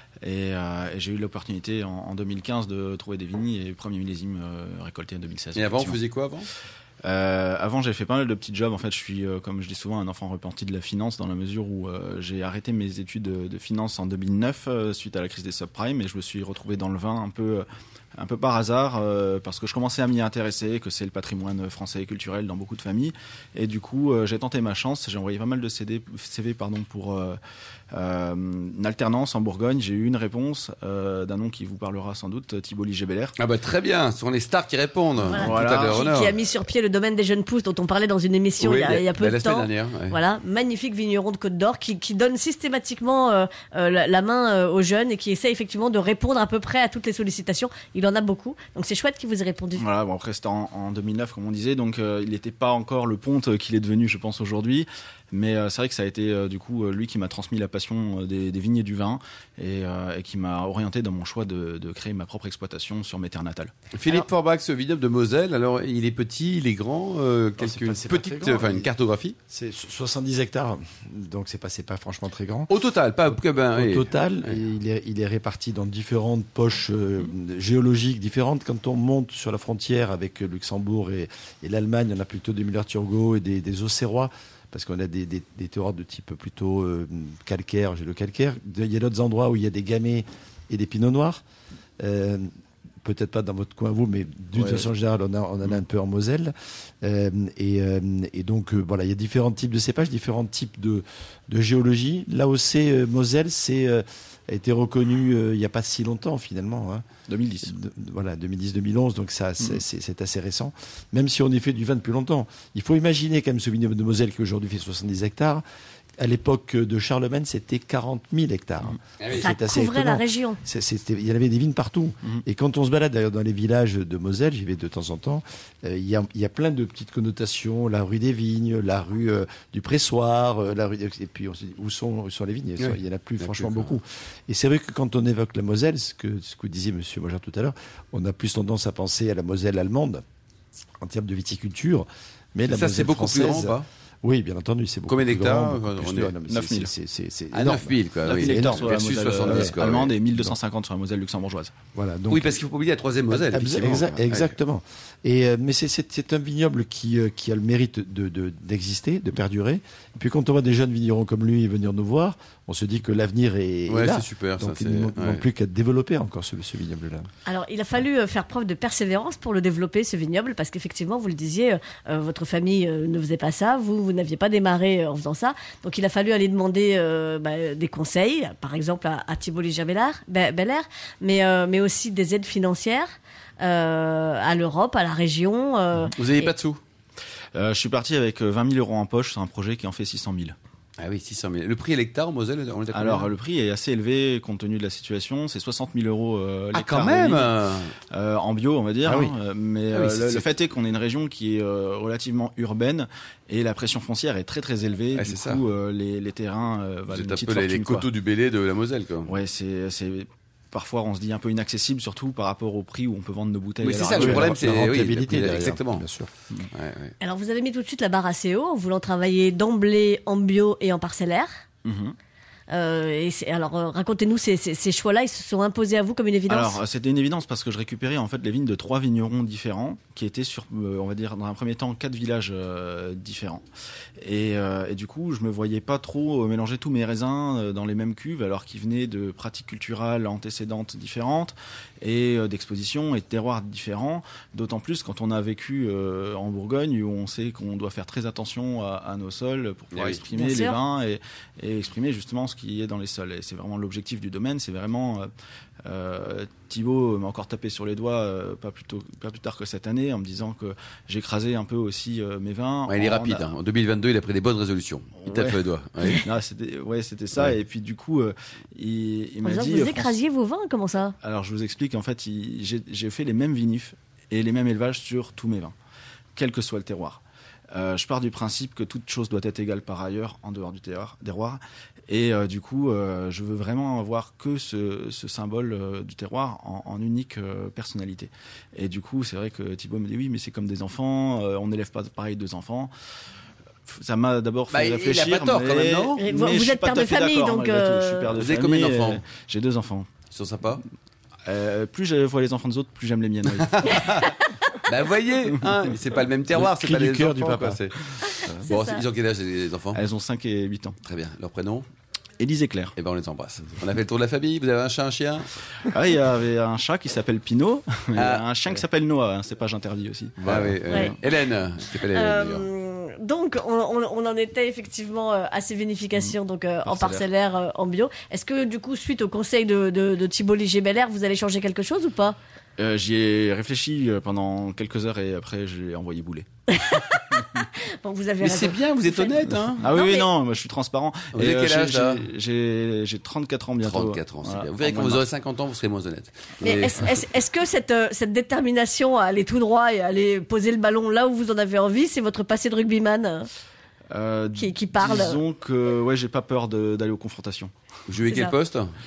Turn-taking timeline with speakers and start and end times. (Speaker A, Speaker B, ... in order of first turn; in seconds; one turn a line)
Speaker A: 0.2-6.0
Speaker B: 5.5-6.5
Speaker A: 7.0-27.4
Speaker A: 27.9-33.4
Speaker B: 33.4-36.3
Speaker A: 35.3-36.0
Speaker C: 35.3-49.9
Speaker B: 38.6-40.2
Speaker A: 49.8-63.8
Speaker B: 63.9-69.4
Speaker D: 67.6-68.9
Speaker D: 69.5-72.7
Speaker B: 72.7-74.1
Speaker D: 73.8-91.4
Speaker D: 92.0-92.5
Speaker D: 93.0-107.1
Speaker A: 94.6-94.9
Speaker A: 107.3-107.7
Speaker D: 107.6-115.6
Speaker D: 116.2-140.2
Speaker B: 119.2-119.5
Speaker C: 119.3-120.6
Speaker B: 132.8-133.9
Speaker D: 141.0-149.8
Speaker B: 142.7-143.8
Speaker B: 145.1-146.4
Speaker A: 146.5-146.9
Speaker B: 147.5-150.1
Speaker A: 148.3-151.8
Speaker D: 151.9-152.6
Speaker B: 152.3-154.6
Speaker D: 153.3-167.3
Speaker B: 163.9-165.4
Speaker C: 167.5-183.1
Speaker C: 183.6-186.5
Speaker B: 186.2-186.8
Speaker A: 187.6-190.6
Speaker B: 191.0-193.3
Speaker A: 192.9-197.5
Speaker B: 196.7-197.9
Speaker A: 198.1-208.1
Speaker B: 199.9-200.5
Speaker B: 205.2-205.6
Speaker B: 207.1-209.3
Speaker A: 209.3-214.6
Speaker B: 213.8-216.0
Speaker D: 214.2-216.3
Speaker B: 216.7-217.2
Speaker C: 217.2-221.5
Speaker A: 221.8-222.2
Speaker C: 222.7-226.8
Speaker A: 226.5-233.6
Speaker A: 234.2-255.3
Speaker B: 249.9-250.2
Speaker C: 250.3-250.8
Speaker A: 255.8-263.5
Speaker B: 262.9-266.2
Speaker A: 265.2-270.2
Speaker C: 269.4-271.2
Speaker A: 271.2-275.8
Speaker A: 276.4-292.9
Speaker A: 293.9-300.1
Speaker B: 294.7-296.2
Speaker C: 296.2-298.4
Speaker B: 298.4-299.2
Speaker B: 300.3-300.8
Speaker A: 301.5-304.3
Speaker B: 303.6-304.4
Speaker B: 304.9-310.0
Speaker D: 306.5-308.7
Speaker C: 308.7-309.0
Speaker A: 309.9-311.0
Speaker B: 311.0-311.9
Speaker A: 312.4-312.9
Speaker B: 313.0-315.5
Speaker A: 315.9-321.2
Speaker B: 318.1-318.4
Speaker B: 320.4-322.7
Speaker C: 320.9-321.2
Speaker C: 321.9-332.4
Speaker A: 326.2-327.3
Speaker A: 332.8-336.5
Speaker C: 336.7-340.3
Speaker B: 338.4-339.9
Speaker A: 339.8-345.2
Speaker B: 341.4-342.2
Speaker B: 343.8-347.2
Speaker C: 346.6-353.5
Speaker A: 354.1-357.7
Speaker C: 354.6-355.4
Speaker B: 358.1-358.9
Speaker C: 358.3-358.5